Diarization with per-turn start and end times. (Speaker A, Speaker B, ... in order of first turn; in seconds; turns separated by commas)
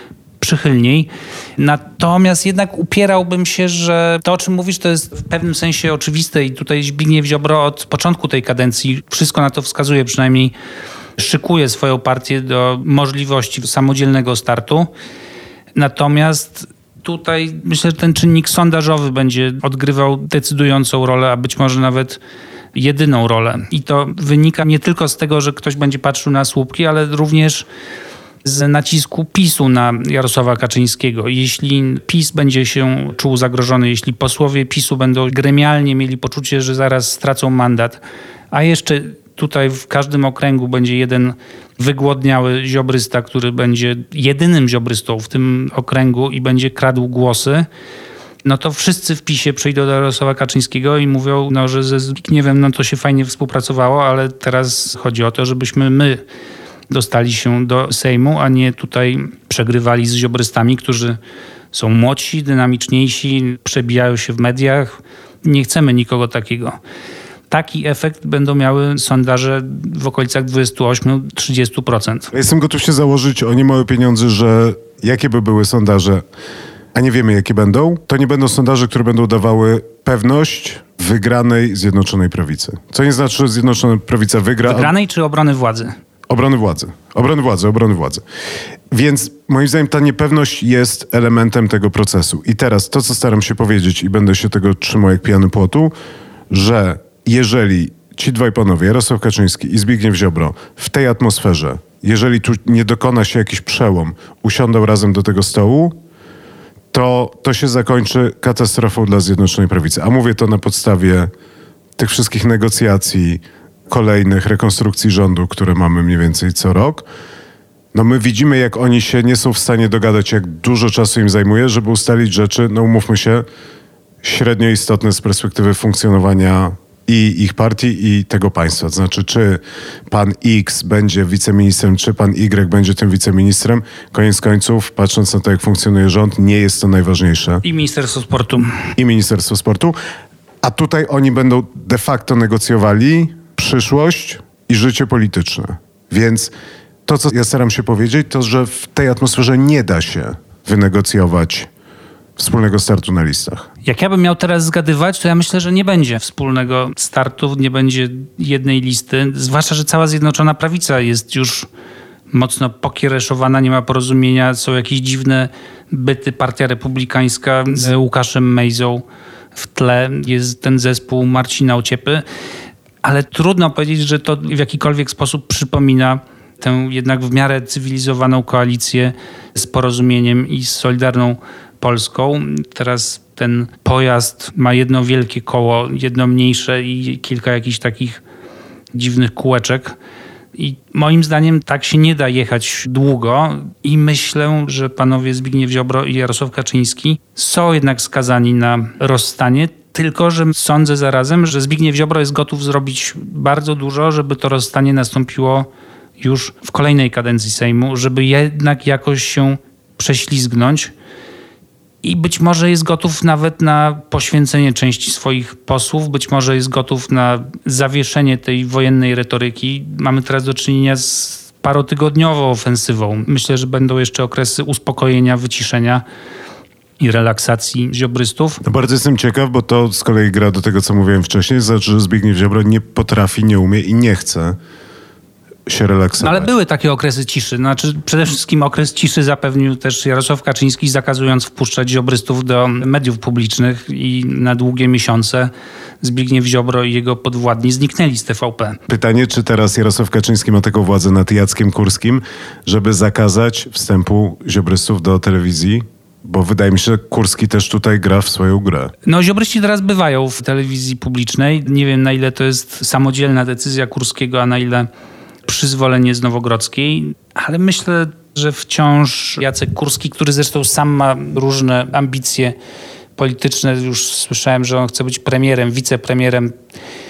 Speaker A: 0.4-10.5, Speaker A: 11.2-14.9, Speaker A: 15.8-22.2, Speaker A: 22.7-27.7, Speaker A: 28.4-38.0, Speaker A: 38.5-47.7, Speaker A: 48.4-56.2, Speaker A: 56.9-61.2, Speaker A: 61.7-66.8, Speaker A: 67.5-72.3, Speaker B: 72.3-76.2, Speaker B: 76.9-84.9, Speaker A: 84.6-86.0, Speaker B: 86.3-88.2, Speaker B: 88.9-95.9, Speaker B: 96.5-106.0, Speaker B: 106.9-111.3, Speaker B: 112.0-117.0, Speaker B: 117.9-123.4, Speaker B: 124.2-137.6, Speaker A: 137.6-138.9, Speaker B: 139.0-140.0, Speaker B: 140.6-146.5, Speaker B: 147.1-151.7, Speaker B: 152.4-153.7, Speaker A: 153.8-161.7, Speaker A: 162.3-169.0, Speaker A: 169.6-172.2, Speaker A: 173.0-188.2, Speaker A: 188.9-190.0, Speaker A: 190.6-205.7, Speaker A: 206.2-210.9, Speaker A: 212.0-226.0, Speaker A: 227.0-228.6, Speaker B: 228.6-234.6, Speaker B: 235.7-236.5, Speaker A: 236.2-248.8, Speaker B: 248.9-258.9, Speaker A: 259.1-264.9, Speaker A: 265.5-272.6, Speaker A: 273.2-276.5